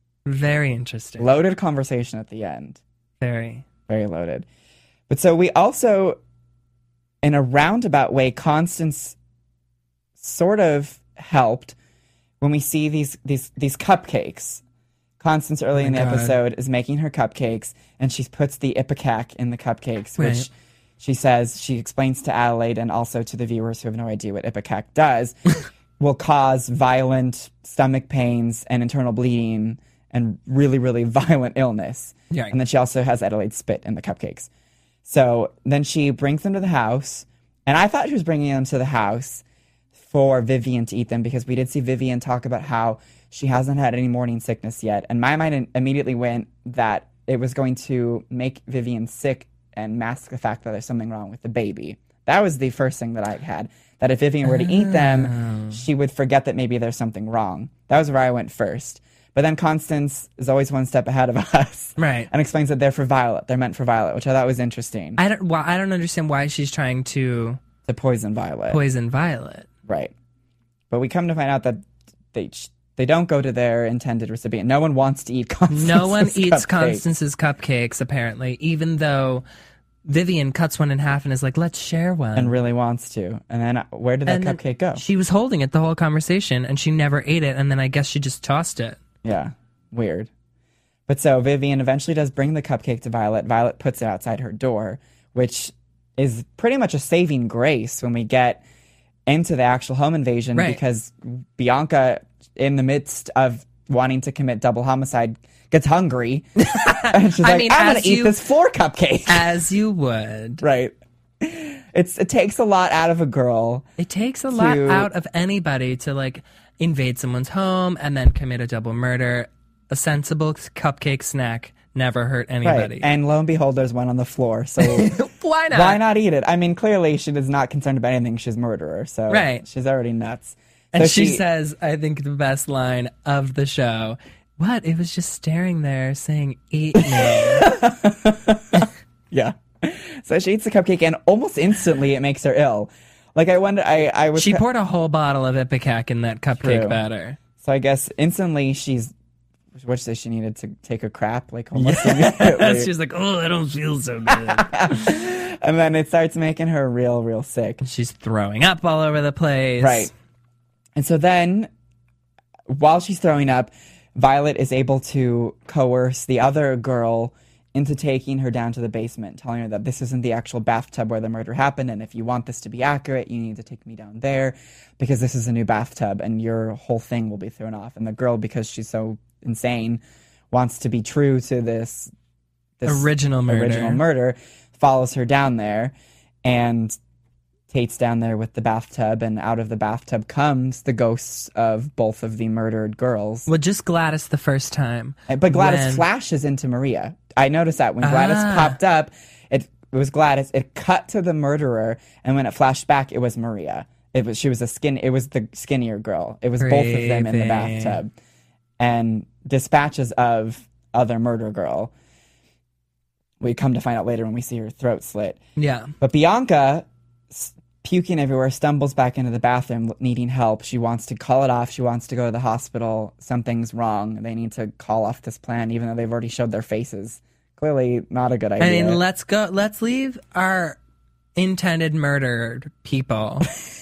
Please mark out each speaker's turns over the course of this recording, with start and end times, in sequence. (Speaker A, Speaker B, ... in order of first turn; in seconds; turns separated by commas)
Speaker A: 0.2-1.3, Speaker B: 1.2-2.8, Speaker A: 3.2-3.6, Speaker B: 3.9-4.5, Speaker B: 5.1-6.2, Speaker B: 7.2-9.2, Speaker B: 10.2-11.8, Speaker B: 12.4-14.6, Speaker B: 15.2-25.4, Speaker A: 15.8-16.4, Speaker A: 20.2-20.5, Speaker B: 26.0-34.5, Speaker B: 35.0-39.4, Speaker B: 40.0-65.2, Speaker A: 54.4-55.8, Speaker A: 62.0-62.3, Speaker A: 65.2-67.6, Speaker B: 67.8-68.8, Speaker A: 68.7-69.7, Speaker B: 69.8-70.1, Speaker B: 70.9-77.0, Speaker A: 75.7-79.4, Speaker A: 80.0-82.6, Speaker B: 82.3-85.0, Speaker A: 84.3-89.0, Speaker B: 89.2-90.3, Speaker B: 91.1-98.6, Speaker B: 99.3-106.5, Speaker A: 100.5-100.8, Speaker A: 106.6-108.3, Speaker B: 107.1-109.5, Speaker A: 109.3-110.6, Speaker B: 110.6-113.9, Speaker A: 114.0-123.1, Speaker B: 114.5-115.1, Speaker B: 122.6-125.2, Speaker A: 124.8-126.0, Speaker B: 125.7-131.4, Speaker A: 129.3-129.6, Speaker A: 130.9-137.7, Speaker B: 137.0-144.6, Speaker A: 144.3-147.4, Speaker B: 146.6-147.0, Speaker B: 147.6-149.1, Speaker B: 149.7-152.9, Speaker A: 151.7-154.9, Speaker B: 154.3-157.8, Speaker A: 157.8-160.1, Speaker B: 159.8-160.1, Speaker B: 160.9-161.7, Speaker B: 162.7-182.1, Speaker B: 182.8-187.0, Speaker A: 182.8-184.0, Speaker B: 187.7-193.5, Speaker A: 193.5-196.0, Speaker B: 195.3-208.1, Speaker A: 198.0-198.8, Speaker A: 206.6-208.0, Speaker B: 208.8-211.9, Speaker B: 213.4-215.4, Speaker A: 215.6-215.9, Speaker B: 216.0-229.0, Speaker A: 228.6-230.8, Speaker A: 231.3-233.5